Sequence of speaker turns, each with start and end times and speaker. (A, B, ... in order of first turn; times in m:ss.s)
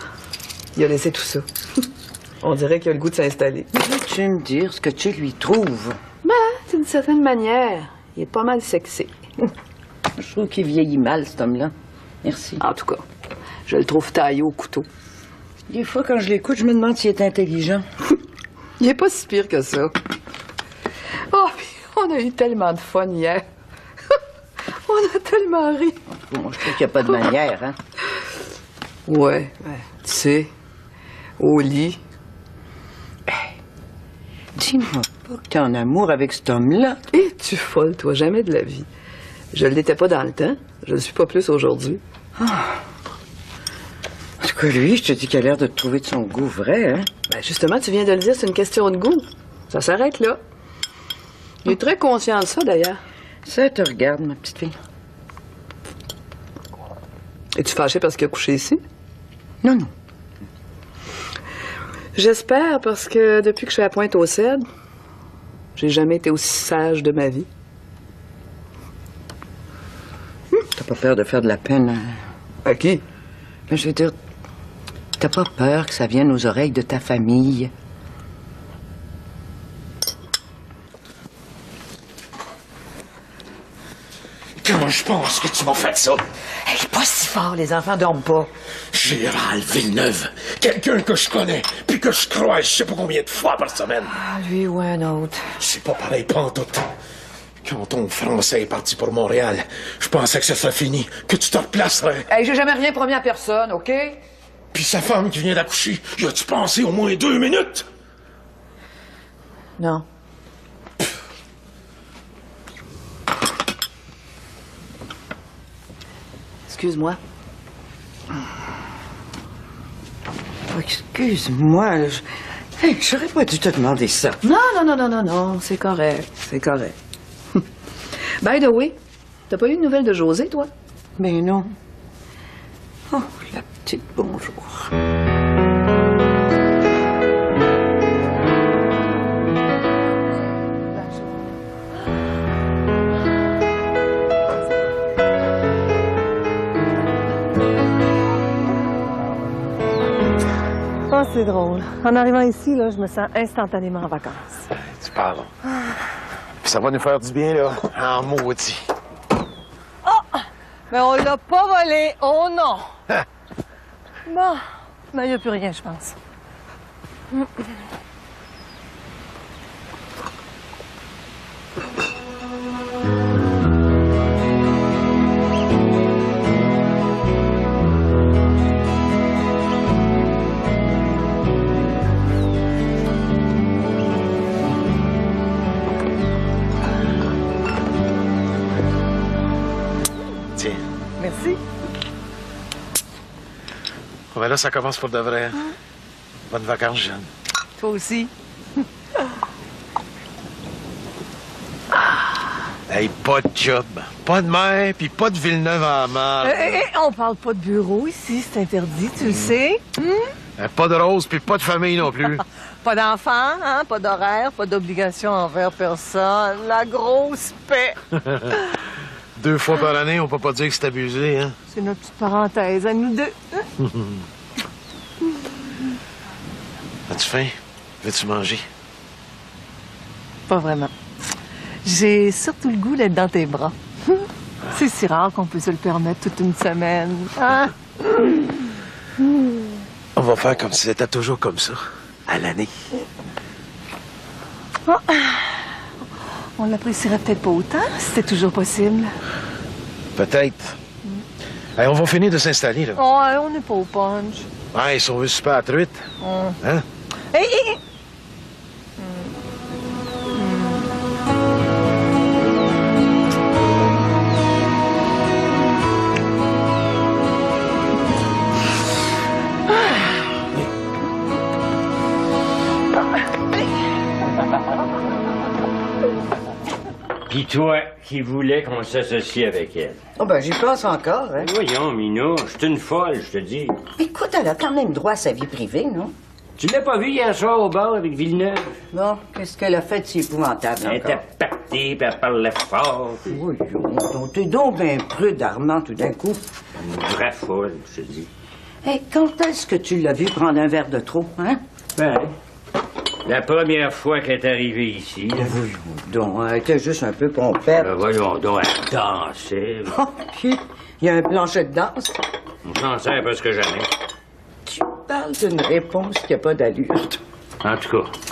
0:00.8-0:01.5 A
0:02.4-0:03.7 A
0:03.7-0:06.0 B
0:06.2-0:09.2 A
0:10.2-0:12.6 B
0:12.6-0:13.0 A
0:13.7-0:14.9 A
0:15.7-0:17.8 B
0:18.8-0:20.0 A
0:21.3-0:23.5 A
0:24.9-0:26.0 A
0:26.3-0:27.8 B
0:29.1-0:30.5 A
0:31.4-0:32.0 A
0:34.6-0:37.0 B
0:37.1-0:38.9 A
0:39.5-0:42.0 A
0:42.4-0:42.8 B
0:44.4-0:47.1 B
0:47.3-0:50.4 A
0:51.6-0:53.0 A
0:53.4-0:54.8 B
0:57.6-0:58.8 A
0:59.6-0:59.9 B
1:02.2-1:04.6 A
1:05.8-1:07.5 A
1:10.8-1:12.2 B
1:12.6-1:13.0 A
1:13.7-1:14.2 B
1:15.2-1:17.7 B
1:24.6-1:26.2 C
1:27.9-1:28.3 A
1:28.9-1:34.2 C
1:34.2-1:35.4 A
1:35.6-1:36.9 C
1:37.6-1:42.3 C
1:42.3-1:44.2 A
1:44.7-1:47.9 C
1:49.8-1:50.0 A
1:56.7-1:57.2 A
2:00.7-2:02.2 B
2:02.8-2:04.4 B
2:04.4-2:07.0 A
2:08.4-2:09.0 A
2:09.5-2:10.7 A
2:11.2-2:11.7 B
2:13.1-2:14.9 B
2:31.1-2:34.6 D
2:34.7-2:35.5 C
2:36.6-2:38.8 C
2:40.0-2:42.9 D
2:44.3-2:46.2 D
3:10.6-3:10.8 C
3:11.2-3:11.6 D
3:14.3-3:15.6 C
3:16.5-3:17.3 C
3:17.8-3:18.3 D
3:22.9-3:26.7 C
3:26.4-3:30.3 D
3:30.6-3:32.4 C
3:32.8-3:38.0 D
3:38.3-3:38.5 C
3:39.4-3:41.6 C
3:41.7-3:43.6 D
3:43.8-3:44.2 C
3:47.1-3:48.7 C
3:50.5-3:50.9 D
3:51.8-3:54.2 D
3:54.7-3:58.4 D
4:00.2-4:02.7 C
4:04.9-4:05.6 D
4:06.6-4:09.1 D
4:10.2-4:10.8 C
4:11.8-4:13.0 C
4:13.0-4:14.5 D
4:14.7-4:16.8 C
4:16.2-4:16.6 D
4:17.3-4:17.8 D
4:19.0-4:19.3 D
4:20.3-4:20.9 D
4:37.3-4:40.0 E
4:40.2-4:41.5 B
4:41.4-4:43.8 E
4:44.0-4:46.1 B
4:46.6-4:48.7 E
4:48.9-4:51.2 B
4:50.8-4:53.3 E
4:53.3-4:56.4 B
4:56.8-4:58.3 E
4:58.8-5:01.6 B
5:02.0-5:02.3 E
5:03.2-5:05.6 E
5:05.4-5:07.9 B
5:07.8-5:10.0 E
5:09.9-5:12.2 B
5:12.6-5:13.9 E
5:14.7-5:17.2 B
5:17.6-5:18.1 E